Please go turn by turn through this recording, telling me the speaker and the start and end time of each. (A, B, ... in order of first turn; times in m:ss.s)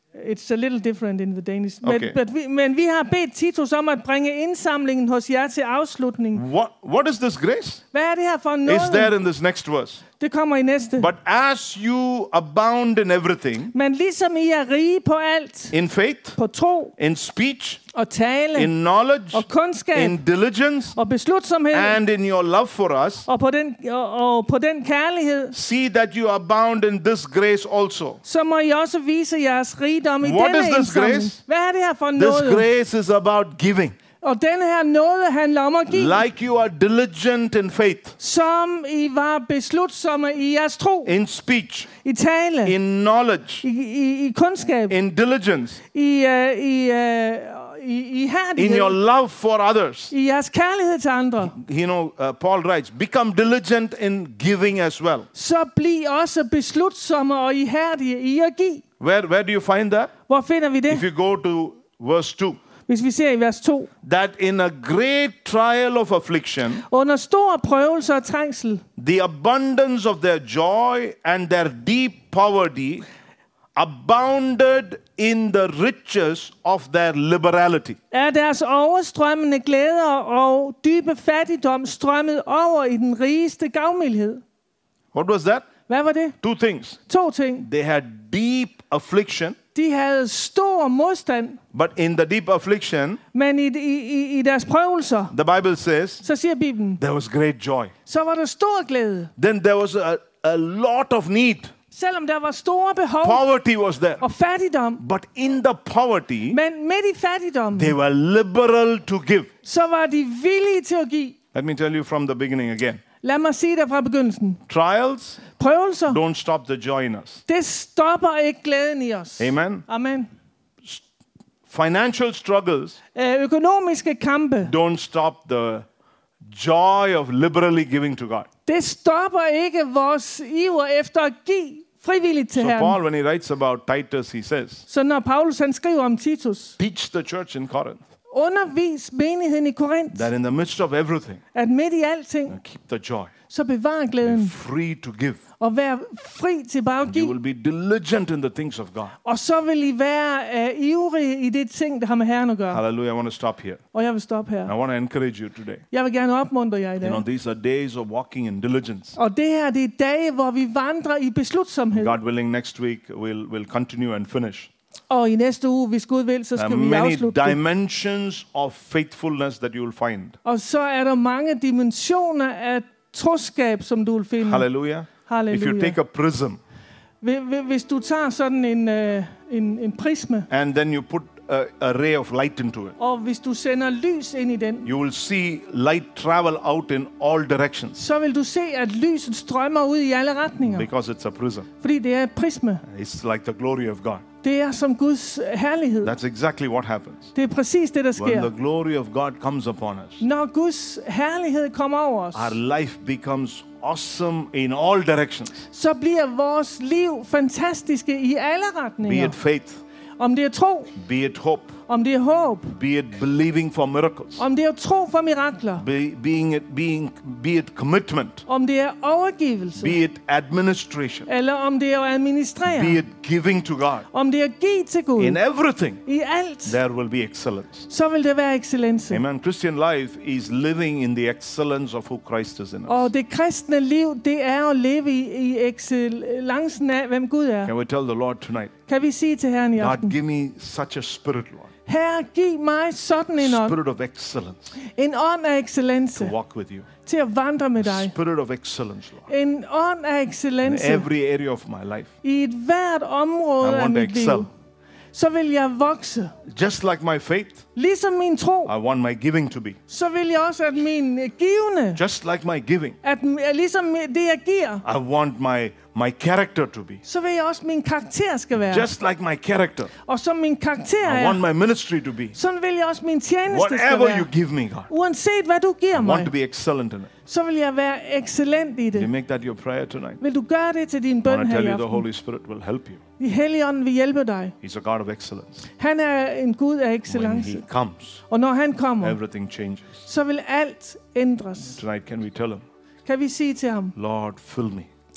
0:00.2-0:06.4 A
0:01.8-0:02.1 B
0:06.3-0:07.8 B
0:07.9-0:09.1 A
0:08.6-0:10.0 B
0:10.2-0:11.1 A
0:11.0-0:13.7 B
0:13.7-0:15.7 A
0:15.7-0:16.4 B
0:16.4-0:16.9 A
0:17.0-0:17.8 B
0:17.9-0:18.7 A
0:18.5-0:21.0 B
0:19.3-0:20.2 A
0:20.9-0:22.0 A
0:21.7-0:23.2 B
0:23.2-0:25.5 A
0:25.5-0:28.2 B
0:28.2-0:32.6 A
0:30.2-0:31.4 B
0:32.2-0:34.0 B
0:34.2-0:36.2 A
0:35.9-0:38.2 B
0:38.2-0:41.1 A
0:41.0-0:41.9 B
0:42.0-0:42.7 A
0:42.6-0:43.6 B
0:43.6-0:45.0 A
0:44.9-0:45.8 B
0:45.9-0:49.0 A
0:48.6-0:50.1 B
0:50.1-0:51.6 A
0:51.4-0:55.3 B
0:55.3-0:58.8 A
0:59.0-1:00.1 B
1:00.3-1:01.0 A
1:00.9-1:02.6 B
1:02.9-1:03.9 A
1:04.0-1:06.8 B
1:06.8-1:08.8 A
1:09.0-1:13.0 B
1:13.8-1:18.0 B
1:18.1-1:24.4 A
1:25.1-1:25.7 B
1:25.9-1:26.4 A
1:26.4-1:27.0 B
1:27.1-1:27.6 A
1:27.6-1:29.6 B
1:29.7-1:31.6 A
1:31.7-1:33.2 B
1:33.3-1:35.3 A
1:35.3-1:36.2 B
1:36.2-1:37.0 A
1:37.0-1:37.9 B
1:38.0-1:39.3 A
1:39.4-1:41.7 B
1:41.9-1:43.4 A
1:43.2-1:44.2 B
1:44.2-1:45.0 A
1:45.0-1:46.6 B
1:46.5-1:48.0 A
1:47.7-1:49.5 B
1:49.6-1:51.4 A
1:51.5-1:53.0 B
1:53.2-1:54.6 A
1:54.7-1:55.4 B
1:55.6-1:56.2 A
1:56.1-1:57.4 B
1:57.5-2:00.3 A
1:59.4-1:59.8 B
2:01.7-2:03.0 B
2:03.1-2:04.7 A
2:04.6-2:05.8 B
2:06.4-2:08.5 B
2:08.7-2:13.0 A
2:12.6-2:14.8 B
2:14.9-2:16.8 A
2:16.8-2:18.0 B
2:18.3-2:20.3 A
2:20.1-2:21.4 B
2:21.5-2:22.6 A
2:22.5-2:23.3 B
2:23.5-2:24.5 A
2:24.2-2:25.4 B
2:25.6-2:27.3 A
2:27.0-2:29.1 B
2:29.2-2:32.8 A
2:32.7-2:33.8 B
2:33.9-2:34.7 A
2:34.6-2:35.8 B
2:35.9-2:37.2 A
2:37.0-2:39.2 B
2:39.2-2:42.2 A
2:41.9-2:44.7 B
2:45.1-2:47.6 A
2:46.6-2:50.4 B
2:50.4-2:54.6 A
2:54.4-2:56.6 B
2:55.2-2:56.0 A
2:57.2-3:00.5 A
3:00.5-3:03.0 B
3:03.0-3:04.9 A
3:04.8-3:08.0 B
3:08.0-3:10.9 A
3:10.6-3:11.7 B
3:11.8-3:12.8 A
3:12.8-3:14.2 B
3:14.4-3:16.1 A
3:16.0-3:17.3 B
3:17.3-3:18.5 A
3:18.2-3:20.2 B
3:20.2-3:22.6 A
3:22.3-3:25.6 B
3:25.7-3:29.4 A
3:29.0-3:29.8 B
3:30.2-3:30.9 A
3:31.0-3:31.7 B
3:31.9-3:32.7 A
3:32.7-3:34.4 B
3:34.4-3:35.8 A
3:35.8-3:38.4 B
3:38.5-3:40.0 A
3:39.8-3:41.3 B
3:41.3-3:43.0 A
3:42.7-3:44.1 B
3:44.1-3:45.4 A
3:45.2-3:46.0 B
3:46.0-3:46.8 A
3:46.6-3:47.9 B
3:47.9-3:49.2 A
3:49.1-3:53.1 B
3:52.9-3:57.7 A
3:57.6-3:58.7 B
3:58.9-4:00.1 A
3:59.8-4:01.7 B
4:01.8-4:03.8 A
4:03.4-4:04.7 B
4:04.8-4:06.3 A
4:06.1-4:06.9 B
4:07.0-4:08.1 A
4:07.8-4:09.3 B
4:09.3-4:11.1 A
4:10.6-4:12.1 B
4:12.2-4:14.5 A
4:13.6-4:14.5 B
4:15.1-4:16.3 A
4:16.5-4:17.6 B
4:17.8-4:18.7 A
4:18.7-4:19.8 B
4:19.9-4:22.0 A
4:22.0-4:23.0 B
4:23.0-4:24.8 A
4:24.8-4:27.0 B
4:27.0-4:28.9 A
4:28.7-4:29.9 B
4:30.0-4:31.4 A
4:31.0-4:32.4 B
4:32.3-4:34.3 A
4:33.5-4:34.9 B
4:34.9-4:36.3 A
4:36.0-4:37.1 B
4:37.2-4:39.1 A
4:38.9-4:40.2 B
4:40.2-4:42.0 A
4:41.2-4:43.0 B
4:43.2-4:44.5 A
4:44.6-4:45.6 B
4:45.8-4:47.6 A
4:47.1-4:48.2 B
4:48.3-4:49.2 A
4:49.0-4:50.0 B
4:50.0-4:51.8 A
4:51.7-4:52.6 B
4:53.0-4:53.9 A
4:53.9-4:54.9 B